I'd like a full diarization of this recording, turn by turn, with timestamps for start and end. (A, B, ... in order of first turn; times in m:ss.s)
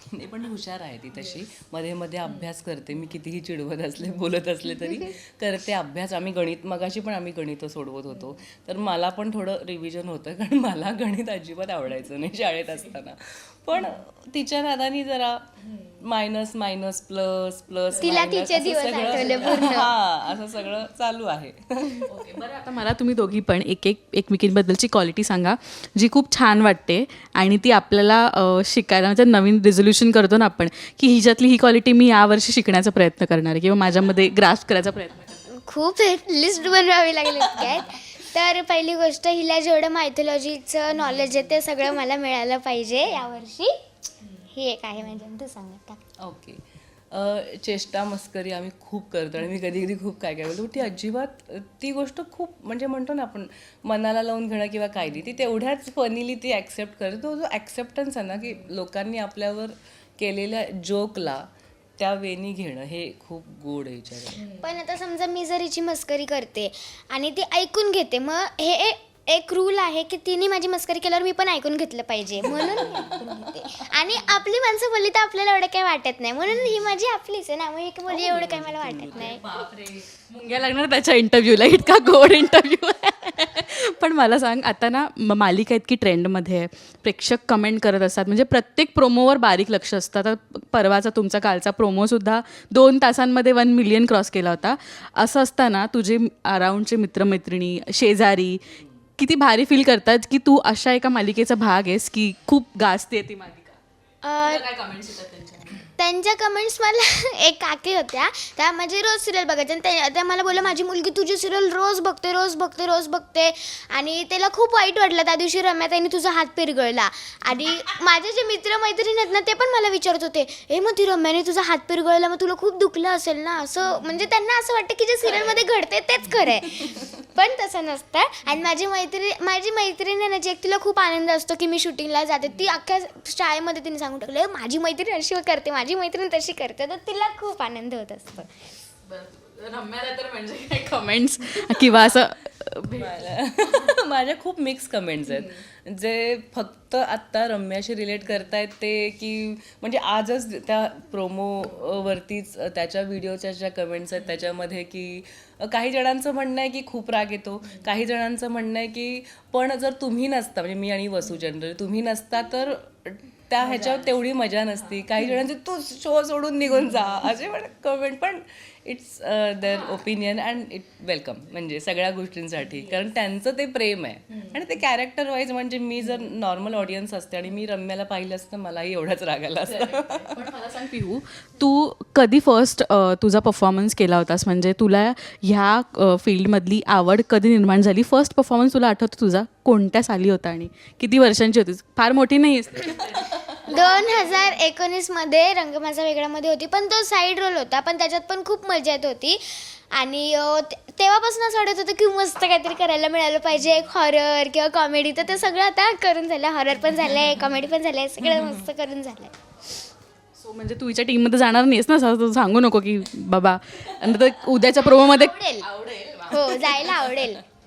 0:00.1-0:15.5 A
0:16.0-0:22.2 A
0:18.0-0:19.9 B
0:19.0-0:19.9 C
0:22.0-0:35.4 C
0:35.5-0:43.7 B
0:44.4-0:46.0 B
0:46.2-1:01.5 A
1:02.0-1:04.4 A
1:04.6-1:19.4 B
1:12.4-1:13.2 A
1:18.1-1:19.4 A
1:19.1-1:38.6 C
1:39.2-1:43.8 C
1:44.2-1:44.6 B
1:44.4-1:45.8 C
1:46.0-2:18.7 B
2:05.2-2:05.6 A
2:06.8-2:07.1 A
2:19.1-2:23.9 C
2:23.0-3:00.5 A
2:43.7-2:43.9 C
2:59.7-3:14.6 C
3:12.9-3:13.6 A
3:13.7-3:29.3 B
3:28.2-3:28.6 A
3:30.4-3:37.1 C
3:34.8-3:35.7 B
3:36.3-3:37.4 B